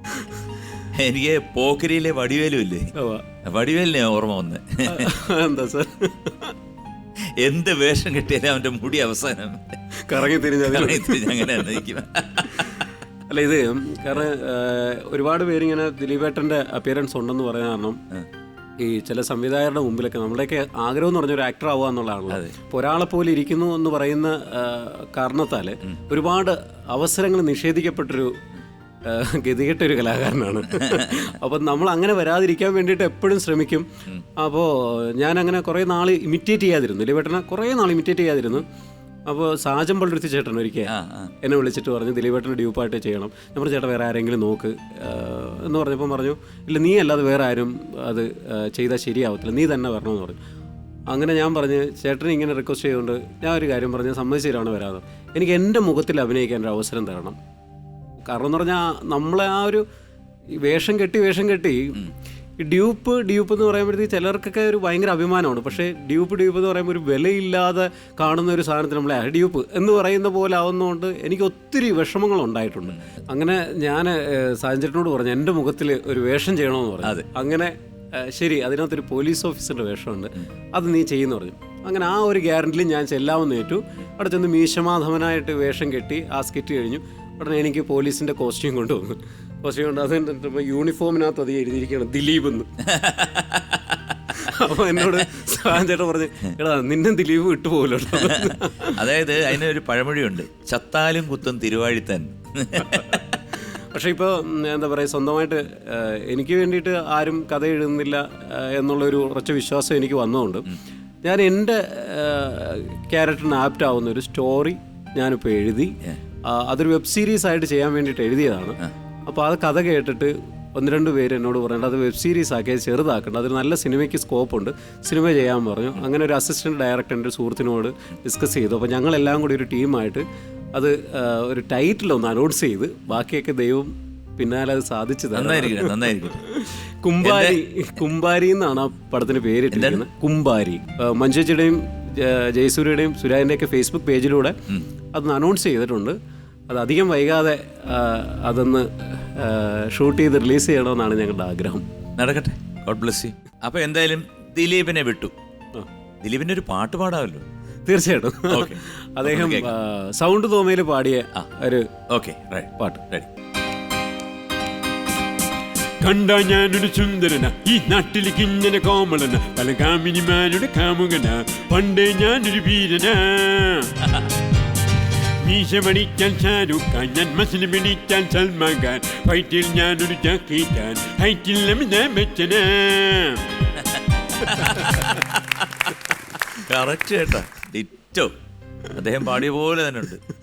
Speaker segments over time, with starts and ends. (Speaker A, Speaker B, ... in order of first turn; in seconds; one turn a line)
Speaker A: 0.9-2.9
Speaker B: 3.0-3.2
Speaker A: 3.4-5.1
Speaker B: 4.8-6.5
Speaker A: 7.4-9.8
Speaker B: 10.0-11.7
Speaker A: 10.6-12.8
Speaker B: 13.3-18.0
Speaker B: 18.8-28.4
Speaker B: 29.0-33.9
Speaker A: 30.8-31.2
Speaker B: 34.4-38.6
Speaker B: 39.3-50.4
Speaker A: 40.9-41.3
Speaker B: 51.1-57.4
Speaker B: 58.2-59.8
Speaker B: 60.6-62.0
Speaker B: 62.6-92.7
Speaker A: 92.9-94.0
Speaker B: 94.3-99.0
Speaker A: 98.2-103.2
Speaker B: 102.9-103.4
Speaker B: 103.9-110.7
Speaker B: 111.2-144.6
Speaker A: 135.3-136.4
Speaker A: 137.2-137.6
Speaker A: 139.7-140.0
Speaker B: 145.1-146.2
Speaker B: 146.7-151.8
Speaker A: 152.2-155.3
Speaker A: 156.2-157.5
Speaker B: 157.8-161.9
Speaker A: 158.5-159.7
Speaker A: 162.1-163.3
Speaker B: 162.8-163.0
Speaker C: 166.0-173.9
Speaker C: 175.4-183.4
Speaker A: 183.8-185.4
Speaker B: 184.6-185.1
Speaker A: 186.5-188.3
Speaker A: 188.9-190.2